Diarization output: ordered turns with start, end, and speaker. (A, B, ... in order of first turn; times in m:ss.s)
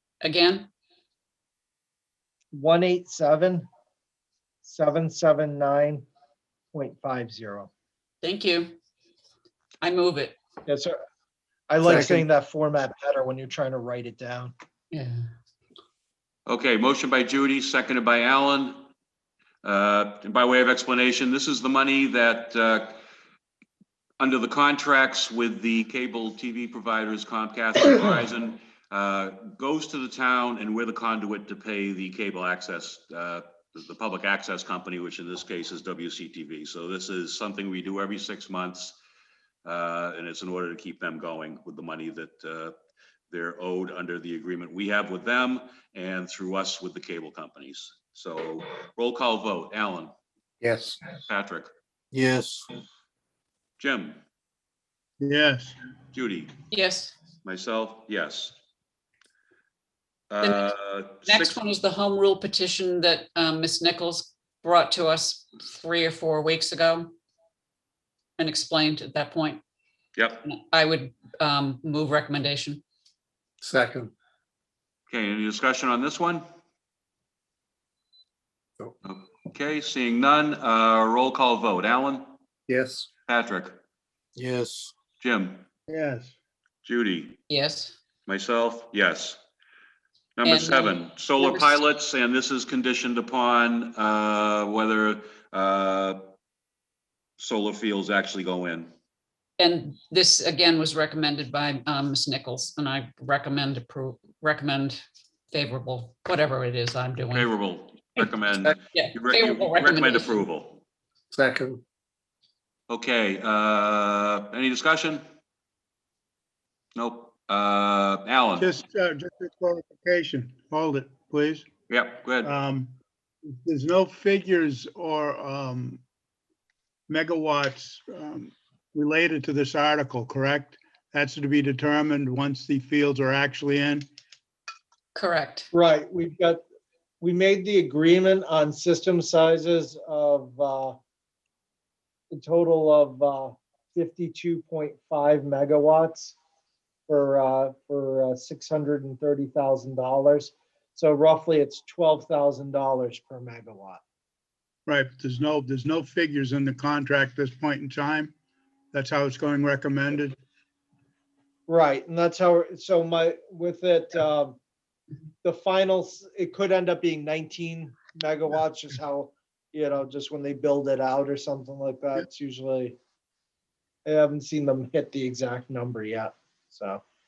0:00.2-0:00.7 A
0:02.5-0:03.7 B
0:04.6-0:06.1 B
0:06.7-0:07.7 B
0:08.2-0:08.8 A
0:09.8-0:10.4 A
0:10.6-0:11.0 B
0:11.7-0:14.5 B
0:11.8-0:12.2 C
0:14.9-0:15.2 A
0:16.5-0:18.8 D
0:19.6-0:23.0 D
0:24.2-0:39.0 D
0:39.6-0:42.7 D
0:43.3-0:50.1 D
0:50.6-0:51.0 C
0:51.3-0:51.7 D
0:52.1-0:52.6 C
0:53.8-0:54.2 D
0:55.2-0:55.8 E
0:56.1-0:56.6 D
0:56.7-0:57.1 A
0:57.4-0:58.5 D
1:00.3-1:01.6 D
1:00.4-1:00.7 A
1:01.2-1:07.1 A
1:08.4-1:09.6 A
1:10.2-1:10.4 D
1:10.4-1:12.8 A
1:13.6-1:14.1 C
1:15.1-1:16.4 D
1:19.0-1:22.2 D
1:22.7-1:23.1 C
1:23.3-1:23.8 D
1:24.4-1:24.9 C
1:25.2-1:25.6 D
1:25.9-1:26.3 E
1:26.8-1:27.4 D
1:27.5-1:28.0 A
1:28.2-1:29.4 D
1:30.4-1:36.2 D
1:30.4-1:31.8 A
1:37.4-1:38.9 D
1:39.6-1:47.5 A
1:47.3-1:50.8 D
1:48.8-1:50.4 A
1:51.3-1:51.8 C
1:52.9-1:55.2 D
1:57.0-1:58.7 D
1:58.6-2:01.6 E
2:01.9-2:02.5 D
2:02.4-2:02.9 E
2:03.6-2:06.0 E
2:07.1-2:14.0 E
2:15.1-2:15.7 A
2:15.7-2:16.6 B
2:17.2-2:21.0 B
2:22.3-2:26.4 B
2:27.1-2:34.0 B
2:34.8-2:38.3 E
2:38.9-2:40.3 E
2:41.7-2:44.6 B
2:45.4-2:53.0 B
2:54.0-2:57.0 B